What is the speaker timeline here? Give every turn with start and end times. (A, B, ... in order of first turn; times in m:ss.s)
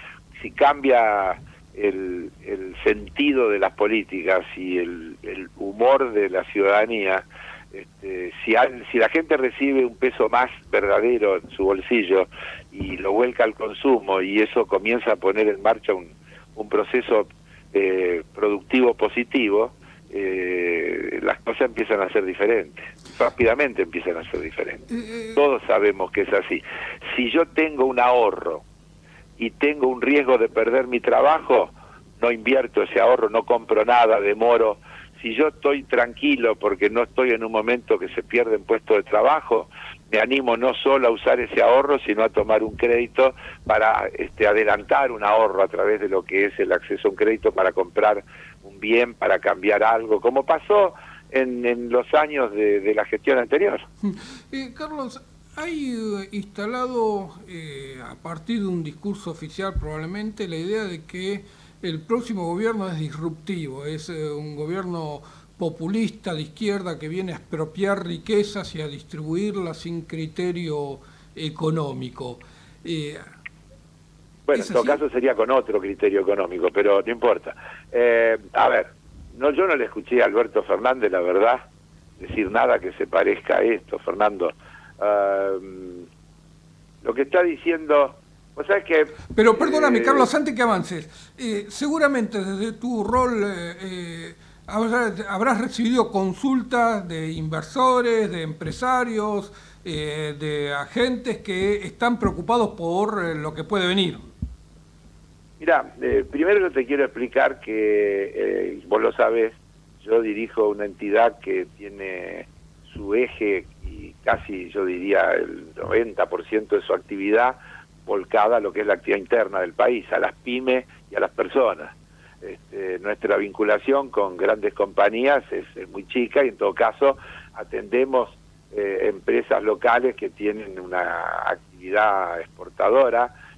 0:00.4-0:28.6 A
0:24.9-0:25.4 B
0:29.4-0:53.8 A
0:54.0-1:13.2 B
1:14.5-1:21.6 A
1:14.5-1:15.0 B
1:22.2-1:26.0 A
1:27.0-1:30.3 A
1:29.3-1:44.2 B
1:45.6-2:13.3 A